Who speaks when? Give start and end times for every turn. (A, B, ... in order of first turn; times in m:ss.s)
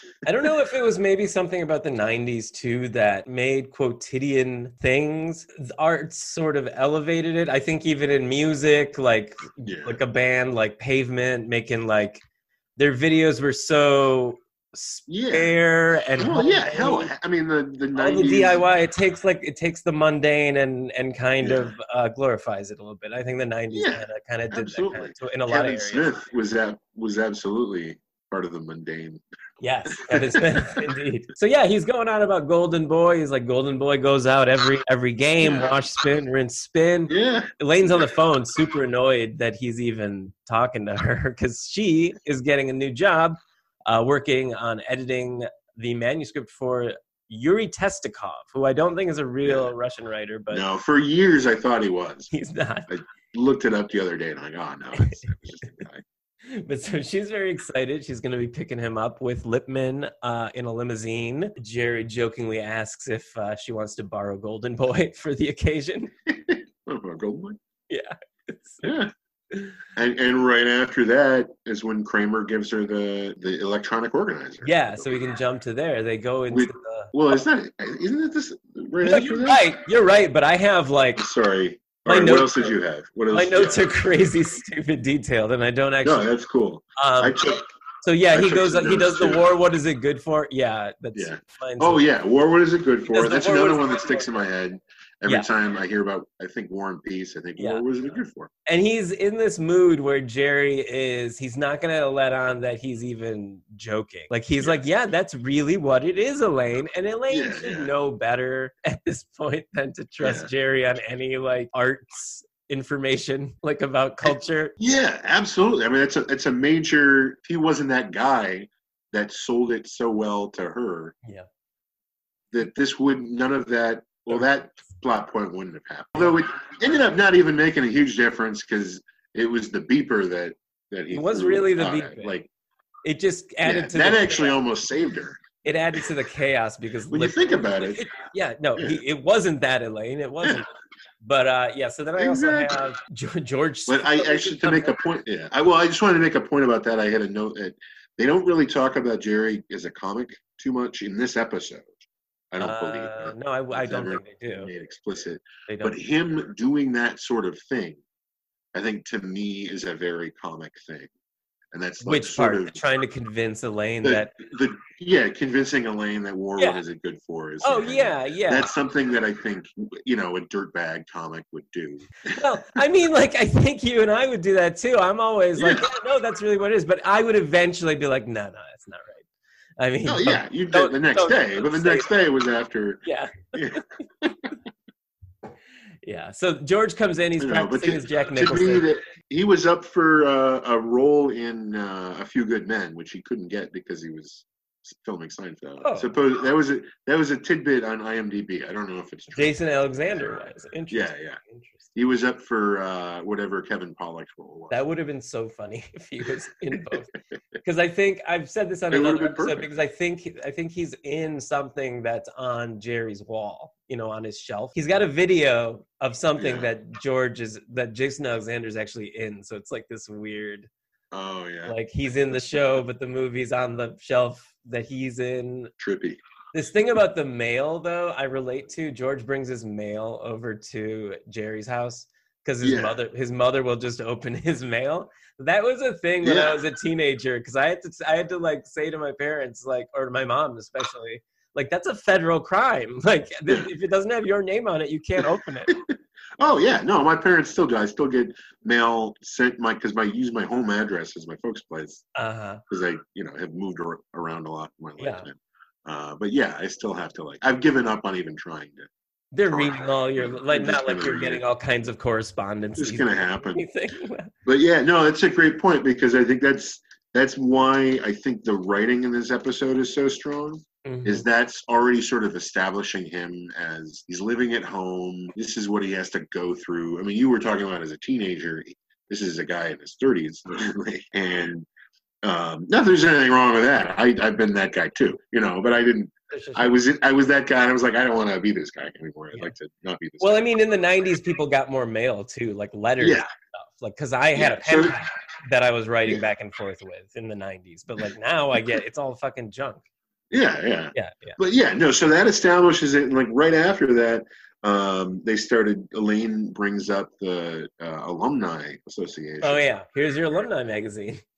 0:00.2-0:12.2 A
0:09.6-0:10.0 B
0:12.8-0:17.1 A
0:15.1-0:15.6 B
0:16.2-0:18.7 B
0:18.0-0:26.1 A
0:21.4-0:21.7 B
0:23.7-0:29.2 B
0:29.6-0:50.6 A
0:29.8-0:30.9 B
0:35.4-0:35.8 B
0:37.1-0:38.1 B
0:49.4-0:49.7 B
0:50.5-0:52.3 B
0:52.3-0:52.9 A
0:52.9-0:56.0 B
0:55.0-0:55.3 A
0:56.5-1:06.1 A
1:06.3-1:07.6 B
1:07.9-1:08.9 A
1:08.8-1:09.1 B
1:09.5-1:09.8 A
1:09.9-1:15.3 B
1:14.6-1:17.4 A
1:16.5-1:19.7 B
1:19.0-1:21.2 A
1:21.2-1:23.8 B
1:22.0-1:22.7 A
1:23.3-1:26.3 A
1:26.0-1:27.6 B
1:27.0-1:32.0 A
1:28.3-1:29.4 B
1:31.1-1:38.5 B
1:33.1-1:34.4 A
1:37.6-1:37.8 A
1:38.6-1:54.7 A
1:47.3-1:47.9 B
1:50.2-1:50.5 B
1:54.2-2:01.1 B
2:02.5-2:12.5 B
2:11.1-2:12.4 A
2:13.0-2:14.6 A
2:13.6-2:15.4 B
2:15.6-2:20.7 A
2:17.1-2:18.1 B
2:18.8-2:19.0 B
2:21.2-2:25.0 A
2:22.2-2:22.8 B
2:23.9-2:38.0 B
2:32.6-2:34.7 A
2:35.7-2:36.0 A
2:38.7-2:41.1 B
2:41.7-2:42.8 B
2:42.0-2:44.3 A
2:44.0-2:52.8 B
2:47.6-2:48.7 A
2:52.3-2:59.2 A
2:55.6-2:55.9 B
2:59.8-3:02.1 A
3:00.0-3:03.0 B
3:03.0-3:03.8 A
3:03.5-3:04.5 B
3:06.0-3:08.8 A
3:07.4-3:19.6 B
3:15.8-3:16.1 A
3:19.3-3:21.9 A
3:20.9-3:21.4 B
3:21.9-3:24.8 B
3:24.7-3:27.1 A
3:27.6-3:40.7 A
3:28.9-3:29.7 B
3:36.4-3:36.7 B
3:41.1-3:41.8 B
3:41.6-3:45.7 A
3:45.8-3:46.2 B
3:46.5-4:05.8 A
3:52.6-3:53.0 B
3:56.2-3:56.6 B
4:05.7-4:12.0 B
4:12.1-4:12.6 A
4:12.7-4:18.9 B
4:15.0-4:15.3 A
4:19.3-4:24.3 A
4:19.5-4:21.4 B
4:22.8-4:23.7 B
4:24.4-4:41.7 B
4:30.8-4:31.2 A
4:42.2-4:50.5 B
4:46.3-4:46.7 A
4:50.2-4:59.8 A
4:53.0-4:53.3 B
4:54.3-4:55.0 B
5:00.3-5:09.7 B
5:00.9-5:01.4 A
5:09.4-5:11.2 A